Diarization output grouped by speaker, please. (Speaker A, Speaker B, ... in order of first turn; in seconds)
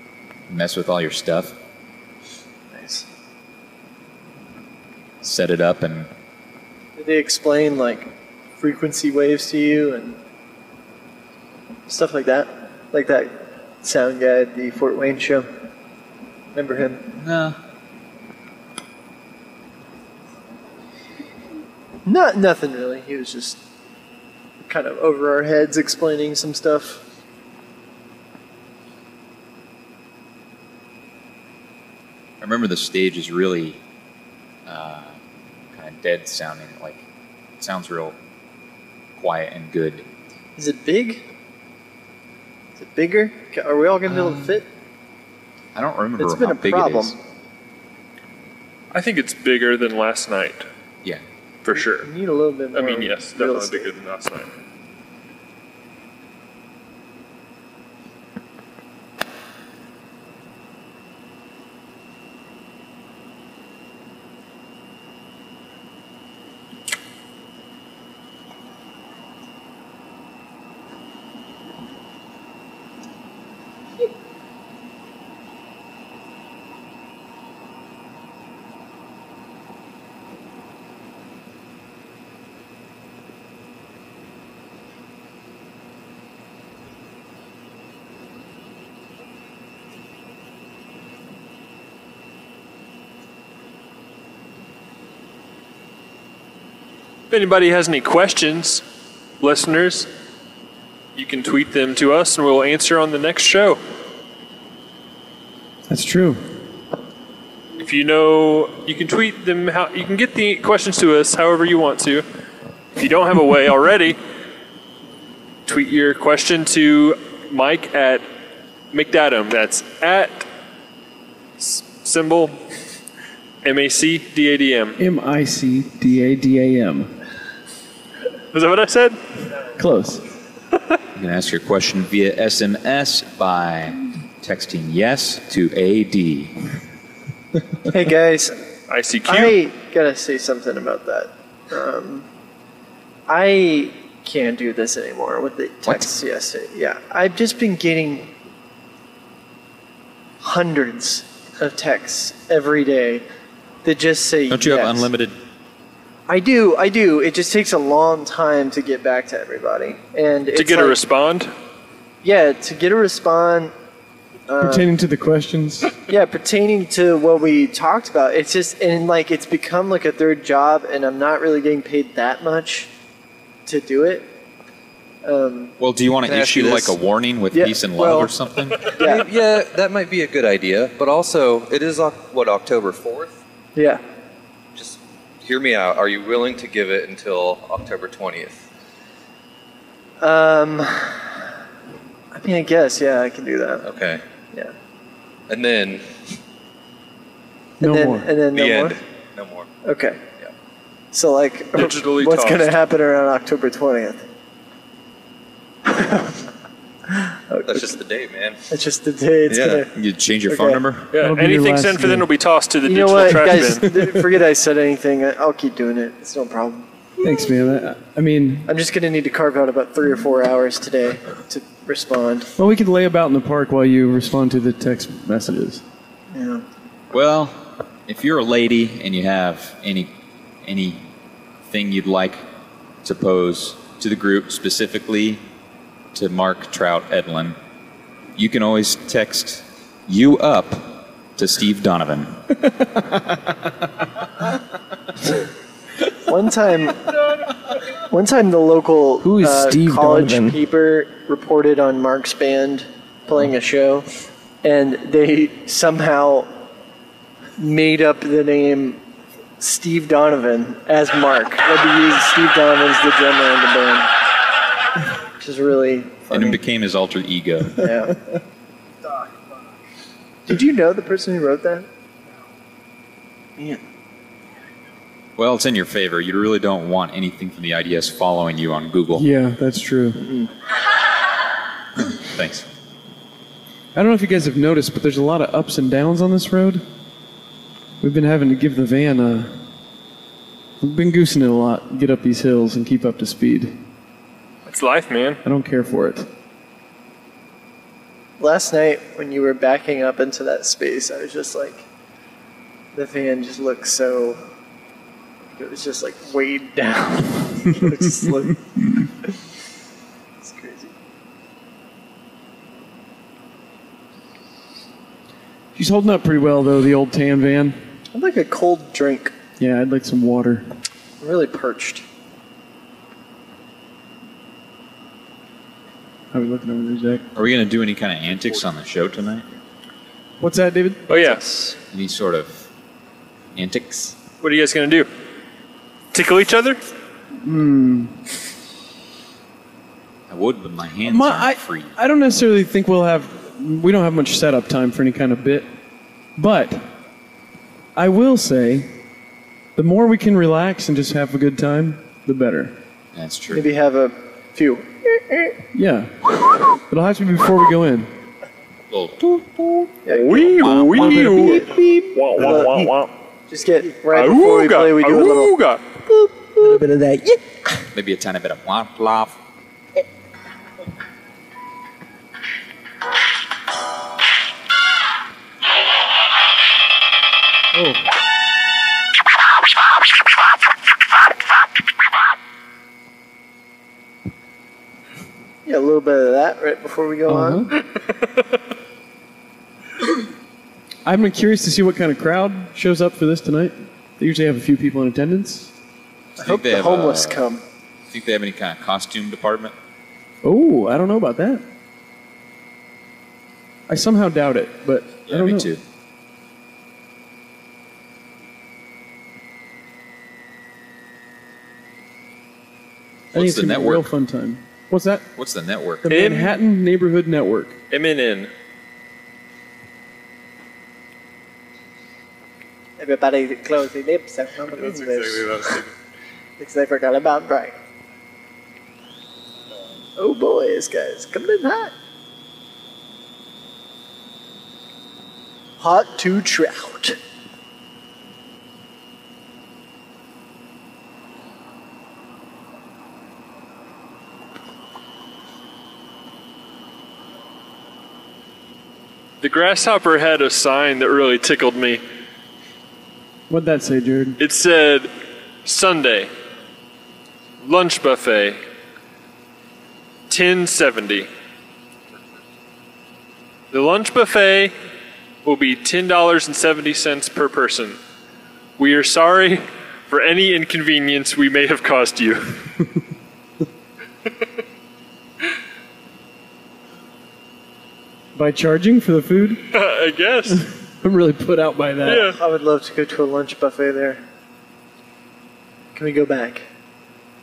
Speaker A: 0.5-1.6, 5.2-6.1, 17.2-17.6, 32.4-33.8, 34.7-35.2, 35.7-37.0, 37.6-38.2, 39.2-40.1, 45.8-47.2, 131.2-136.6, 154.5-155.4, 175.8-178.9, 209.9-211.1, 227.1-231.1, 231.7-232.4, 233.0-235.4, 236.1-237.6, 238.3-242.4, 266.3-267.9, 275.4-279.3, 282.1-282.7, 327.4-329.5, 331.9-332.7, 333.6-334.2, 340.3-341.9, 353.1-353.6, 358.9-359.7, 360.6-360.9, 367.9-369.4, 396.4-397.5, 398.1-399.8, 405.3-405.8, 413.3-414.1, 415.4-416.2
Speaker B: 2.7-3.1, 7.0-10.2, 11.9-15.5, 16.5-17.1, 22.1-23.6, 24.6-27.0, 40.6-41.3, 42.8-44.7, 46.2-47.2, 51.7-53.9, 137.9-138.6, 139.2-142.3, 143.3-148.3, 150.4-153.2, 153.8-155.1, 156.3-161.0, 162.2-163.7, 164.5-164.9, 166.1-172.9, 173.7-174.3, 175.2-175.8, 177.5-178.3, 178.9-179.3, 183.8-184.0, 190.2-191.3, 192.3-193.9, 197.8-199.0, 199.8-200.2, 201.1-204.2, 205.9-206.4, 207.1-208.0, 208.7-209.9, 210.5-210.8, 212.8-216.9, 218.7-222.5, 226.3-226.7, 246.3-247.1, 248.0-254.1, 254.6-256.5, 257.6-259.0, 259.6-264.1, 265.4-266.6, 267.8-268.2, 270.5-271.9, 298.4-301.9, 302.9-304.4, 305.6-309.3, 310.4-310.9, 318.1-319.3, 321.2-322.0, 353.5-355.6, 360.1-362.9, 363.5-365.6, 385.6-387.7, 396.4-397.6, 423.0-425.8, 426.6-427.7, 430.2-431.9, 435.8-437.2, 482.3-484.2, 485.9-486.7
Speaker C: 48.9-50.7, 51.6-52.1, 52.7-54.5, 97.3-98.8, 99.4-100.1, 101.2-103.8, 107.8-112.2, 113.0-114.2, 115.7-118.2, 118.9-120.5, 121.6-122.6, 123.6-125.0, 128.5-129.2, 138.9-139.6, 160.5-161.5, 201.8-202.7, 211.1-214.1, 294.7-295.4, 331.1-331.8, 334.4-335.1, 336.1-336.8, 360.1-363.1, 364.1-365.8, 416.1-416.6, 417.9-418.5, 449.4-452.0, 454.4-455.1, 455.6-456.3, 457.6-458.6, 460.3-461.3, 463.7-464.7, 465.4-468.0, 468.8-472.6, 479.7-480.6, 482.0-482.4
Speaker D: 105.9-106.4, 125.0-127.1, 129.8-130.2, 164.6-166.0, 197.8-198.3, 211.2-212.3, 217.2-218.7, 222.6-225.8, 279.2-280.4, 283.9-286.9, 288.0-289.6, 290.8-293.8, 295.4-296.3, 315.8-317.8, 319.6-320.7, 326.3-327.2, 330.4-331.2, 337.4-338.2, 341.0-345.7, 346.4-346.9, 348.0-348.9, 349.8-352.8, 355.7-358.1, 377.7-378.0, 387.3-387.8, 391.1-395.7, 400.4-401.6, 403.9-405.7, 413.3-415.3, 416.0-417.8, 453.5-454.4, 478.4-479.6, 481.0-482.3
Speaker E: 176.3-177.0, 179.0-183.4, 184.8-188.7, 193.8-194.2, 195.5-196.2, 198.5-199.7, 207.7-208.6, 209.5-209.9, 424.8-425.9
Speaker F: 249.2-250.6, 366.6-367.8